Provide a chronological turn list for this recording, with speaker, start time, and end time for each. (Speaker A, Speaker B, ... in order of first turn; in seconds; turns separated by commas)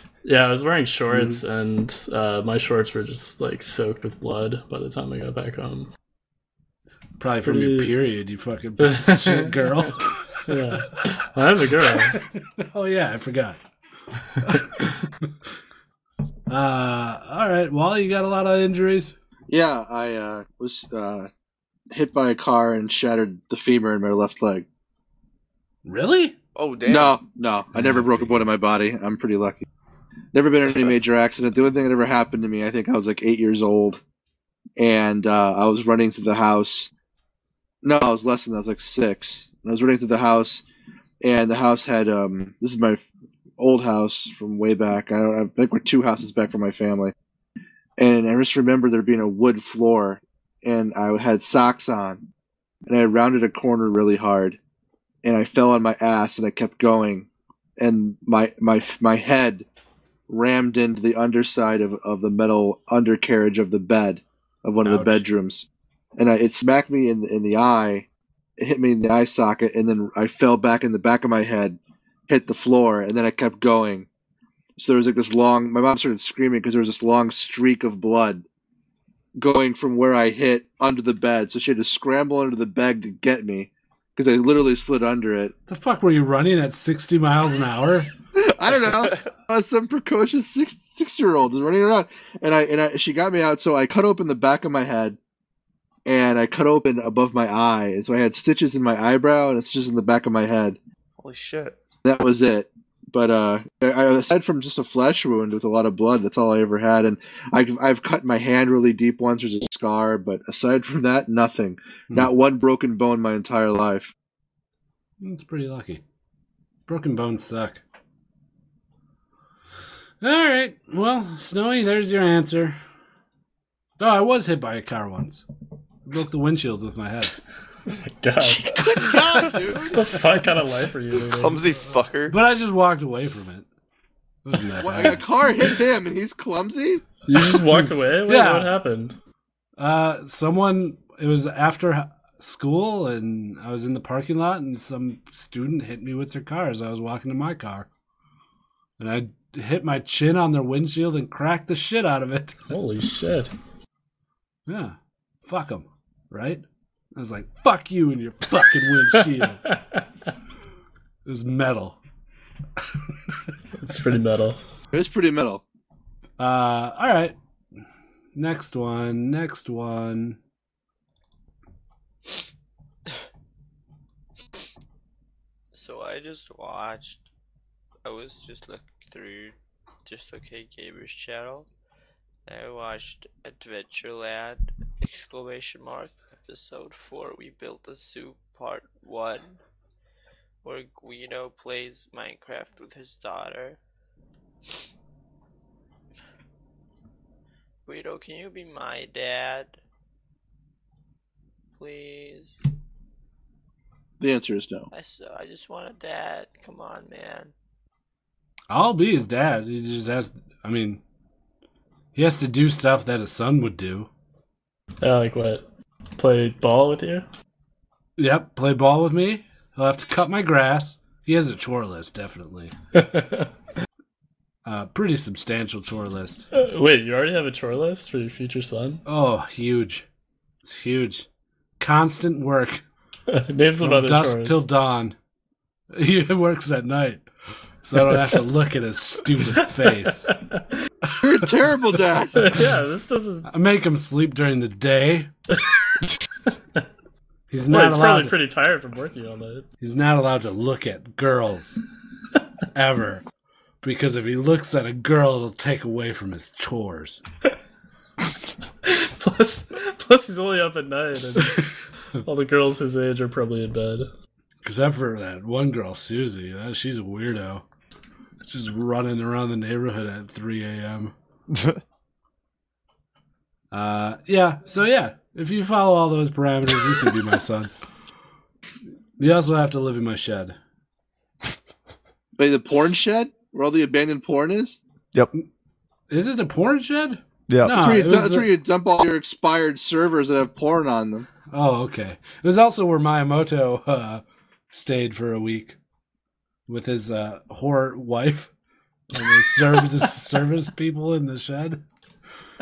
Speaker A: 0.2-5.9, Speaker B: 1.1-1.4, Speaker B: 7.2-10.8, Speaker A: 7.2-7.9, Speaker A: 8.8-9.9, Speaker A: 10.5-12.2, Speaker B: 12.1-13.6, Speaker B: 14.4-15.3, Speaker B: 16.5-19.1, Speaker C: 19.5-21.3, Speaker C: 21.9-24.7, Speaker B: 25.9-26.4, Speaker D: 26.6-27.2, Speaker C: 26.9-29.6, Speaker B: 27.8-28.5, Speaker C: 30.3-34.0, Speaker C: 34.8-36.9, Speaker C: 37.8-40.6, Speaker C: 41.2-43.0, Speaker C: 43.6-47.1, Speaker C: 48.0-52.3, Speaker C: 52.9-54.6, Speaker C: 55.2-57.3, Speaker C: 57.8-59.7, Speaker C: 60.3-68.1, Speaker B: 64.8-65.2, Speaker C: 68.6-74.1, Speaker C: 74.8-78.4, Speaker C: 79.4-85.5, Speaker B: 85.7-88.1, Speaker C: 88.3-95.2, Speaker C: 96.1-100.8, Speaker D: 101.2-101.8, Speaker C: 102.0-114.1, Speaker B: 115.2-116.0, Speaker B: 116.9-117.8, Speaker B: 120.2-122.8, Speaker B: 124.0-125.5, Speaker B: 126.0-127.3, Speaker A: 128.2-129.3, Speaker C: 128.9-130.1, Speaker D: 129.1-129.5, Speaker A: 129.9-131.6, Speaker D: 131.2-132.3, Speaker B: 132.3-133.7, Speaker B: 134.4-135.2, Speaker C: 134.8-137.0, Speaker A: 137.3-139.2, Speaker B: 137.4-138.7, Speaker B: 139.8-147.9, Speaker B: 149.0-152.6, Speaker A: 152.7-153.5, Speaker B: 154.7-156.6, Speaker B: 157.2-159.6, Speaker B: 161.3-162.0, Speaker A: 163.8-164.6, Speaker C: 164.9-165.6, Speaker B: 166.4-167.3, Speaker B: 168.3-170.4, Speaker E: 175.7-177.2, Speaker E: 178.0-181.7, Speaker E: 182.5-189.6, Speaker E: 190.6-193.8, Speaker E: 197.9-199.8, Speaker E: 201.8-202.6, Speaker C: 204.2-204.9, Speaker E: 204.9-207.5, Speaker B: 208.7-211.0, Speaker B: 212.2-214.1, Speaker A: 215.0-215.7, Speaker A: 216.2-217.3, Speaker B: 218.2-222.7, Speaker A: 222.9-223.5, Speaker B: 224.7-226.5, Speaker A: 226.5-229.0, Speaker B: 229.1-230.1, Speaker B: 230.6-231.3, Speaker B: 231.8-232.8, Speaker A: 233.3-234.6, Speaker B: 233.8-235.2, Speaker B: 235.9-237.2, Speaker B: 237.8-240.3, Speaker A: 240.3-240.7, Speaker C: 241.2-242.5, Speaker A: 242.4-243.5, Speaker B: 243.5-245.3, Speaker B: 247.5-248.4, Speaker A: 247.7-249.7, Speaker B: 249.8-251.8, Speaker B: 252.7-253.2, Speaker B: 253.8-257.2, Speaker A: 258.8-261.7, Speaker A: 262.2-264.1, Speaker B: 264.6-267.6, Speaker B: 268.4-271.1, Speaker D: 271.5-271.8, Speaker B: 273.7-277.7, Speaker B: 279.2-280.6, Speaker C: 282.4-284.8, Speaker B: 286.1-288.5, Speaker D: 287.5-287.8, Speaker C: 287.7-291.3, Speaker B: 291.5-295.8, Speaker B: 296.7-298.5, Speaker B: 299.1-301.8